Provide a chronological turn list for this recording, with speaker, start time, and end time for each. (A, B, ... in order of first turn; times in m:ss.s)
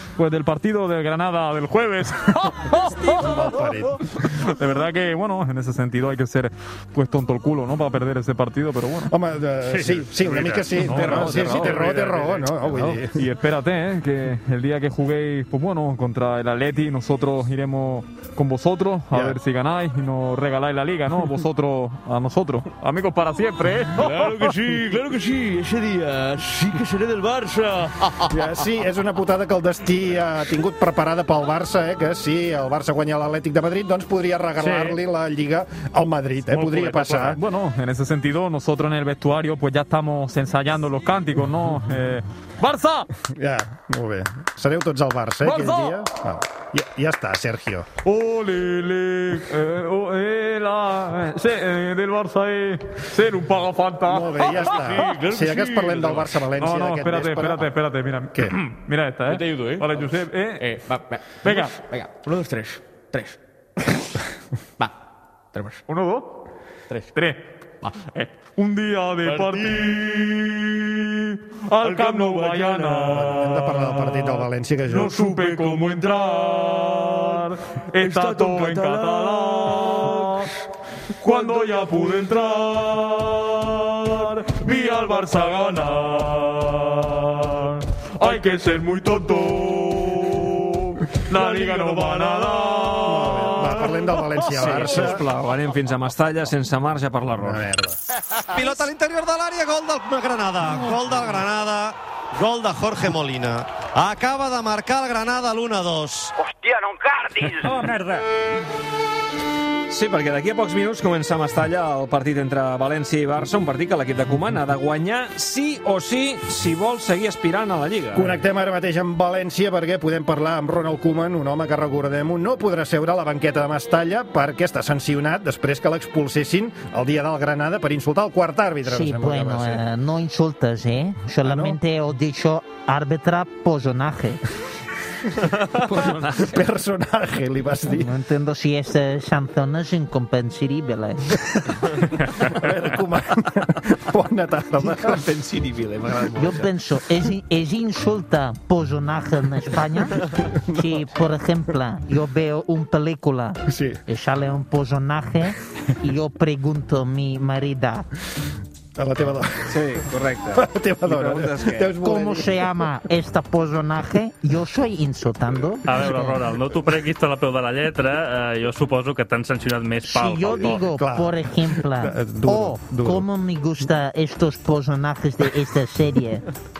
0:00.2-0:09.1 A
0:03.1-0:04.0 B
0:09.1-0:13.2 B
0:09.6-0:12.4 C
0:10.7-0:12.0 A
0:12.6-0:24.6 A
0:19.1-0:19.4 B
0:24.0-0:28.4 D
0:28.3-0:37.4 B
0:34.6-0:35.0 C
0:36.5-0:37.3 C
0:37.3-0:43.1 A
0:43.2-0:47.9 B
0:45.4-0:46.0 A
0:48.0-0:55.0 A
0:54.1-0:57.7 B
0:54.6-0:56.3 D
0:56.6-1:00.7 A
0:59.3-1:03.4 D
1:01.4-1:01.8 A
1:05.5-1:05.8 D
1:05.9-1:06.3 A
1:07.1-1:07.4 A
1:07.8-1:08.3 D
1:08.6-1:20.5 A
1:09.2-1:09.8 D
1:11.8-1:13.0 D
1:13.0-1:15.2 B
1:18.0-1:20.2 D
1:21.2-1:35.1 A
1:32.0-1:32.4 E
1:33.0-1:35.2 B
1:34.6-1:37.6 E
1:37.4-1:38.0 B
1:38.5-1:46.4 F
1:47.5-1:48.2 C
1:49.9-1:58.4 E
1:58.1-2:09.8 B
2:08.8-2:14.4 G
2:11.4-2:11.8 B
2:15.8-2:16.5 E
2:16.4-2:18.1 B
2:17.9-2:21.3 G
2:22.5-2:25.3 B
2:24.8-2:26.6 E
2:26.4-2:30.2 G
2:30.6-2:31.0 B
2:30.7-2:38.1 G
2:33.7-2:34.0 B
2:39.0-2:40.0 B
2:39.7-2:41.9 E
2:40.5-2:42.7 B
2:42.0-2:46.4 G
2:45.9-2:50.8 C
2:50.1-2:56.4 G
2:50.9-2:53.3 B